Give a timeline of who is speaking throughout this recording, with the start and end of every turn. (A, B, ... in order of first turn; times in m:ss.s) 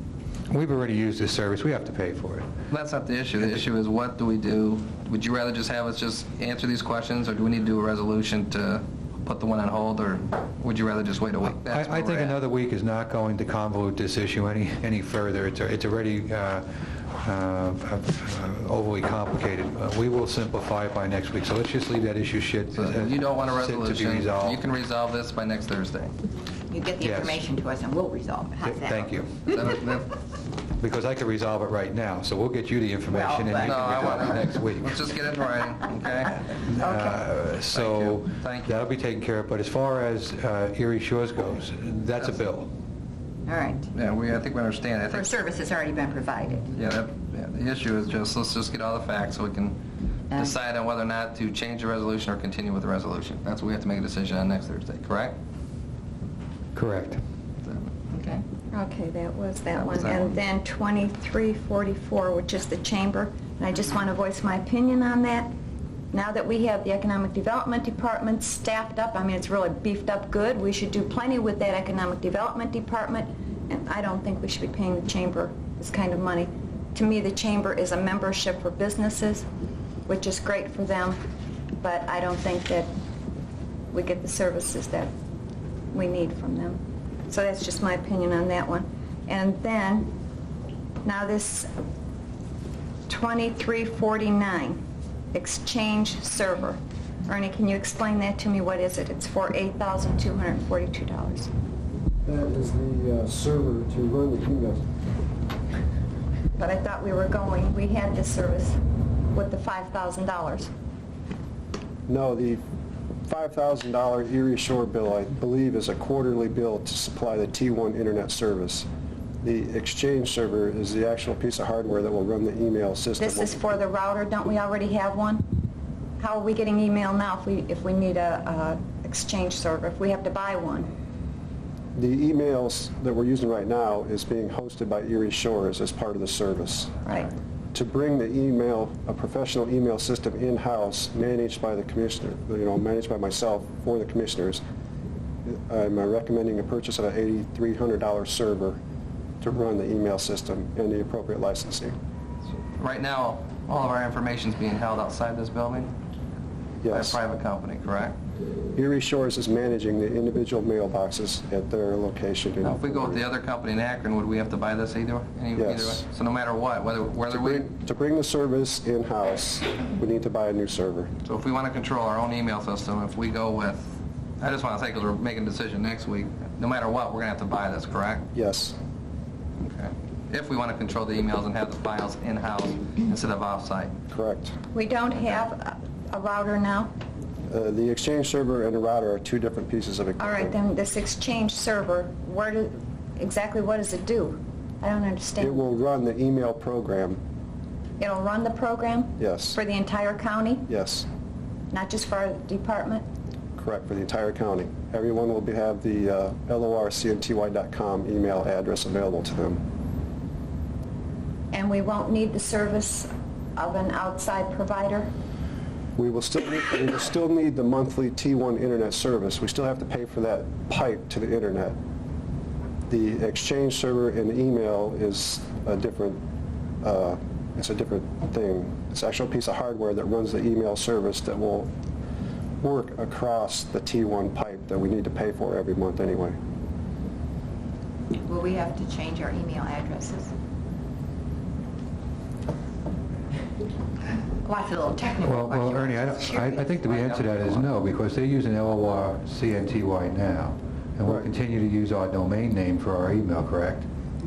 0:00.5-0:02.5 A
0:02.7-0:12.4 B
0:11.5-0:16.7 A
0:17.2-0:24.6 A
0:22.7-0:26.2 B
0:26.7-0:30.0 C
0:27.0-0:27.4 A
0:28.6-0:29.5 A
0:29.5-0:30.2 B
0:30.8-0:35.1 A
0:33.1-0:34.4 C
0:33.6-0:36.5 B
0:36.6-0:42.7 A
0:36.8-0:37.1 C
0:37.7-0:38.8 B
0:43.5-0:43.9 C
0:43.9-0:45.3 B
0:45.1-0:46.7 C
0:46.7-0:49.8 B
0:50.3-0:50.6 C
0:50.3-0:55.4 B
0:56.7-0:57.2 A
0:57.6-0:58.4 B
0:58.7-1:05.5 D
0:59.9-1:00.4 B
1:06.1-1:19.5 D
1:20.1-1:21.2 D
1:21.8-1:22.9 D
1:23.9-1:25.1 D
1:25.9-1:30.1 D
1:31.0-1:31.7 D
1:33.1-1:34.8 D
1:35.3-1:41.5 D
1:42.2-1:44.8 E
1:46.6-1:48.8 D
1:49.3-1:50.7 D
1:52.1-1:52.6 E
1:53.3-1:58.9 E
1:59.4-2:03.6 E
2:03.2-2:05.4 D
2:06.2-2:10.9 D
2:12.0-2:16.9 E
2:17.0-2:17.3 D
2:17.7-2:24.6 E
2:25.5-2:28.8 E
2:29.4-2:32.0 E
2:32.8-2:35.9 B
2:36.8-2:37.2 E
2:36.9-2:38.2 B
2:38.8-2:43.2 E
2:42.6-2:47.7 B
2:45.6-2:46.0 E
2:47.3-2:51.1 E
2:51.2-2:58.3 B
2:58.4-2:58.8 E
2:59.6-3:04.0 B
3:04.1-3:04.6 E
3:04.7-3:06.9 D
3:07.5-3:10.6 E
3:10.2-3:15.6 D
3:15.4-3:17.2 E
3:18.0-3:20.7 D
3:19.2-3:19.6 E
3:20.7-3:21.1 E
3:21.7-3:23.0 D
3:23.6-3:29.6 E
3:31.5-3:35.1 D
3:36.0-3:41.8 E
3:42.9-3:46.2 E
3:46.8-3:51.7 E
3:52.6-3:56.4 E
3:58.2-4:00.3 C
4:04.4-4:07.5 C
4:05.2-4:13.9 A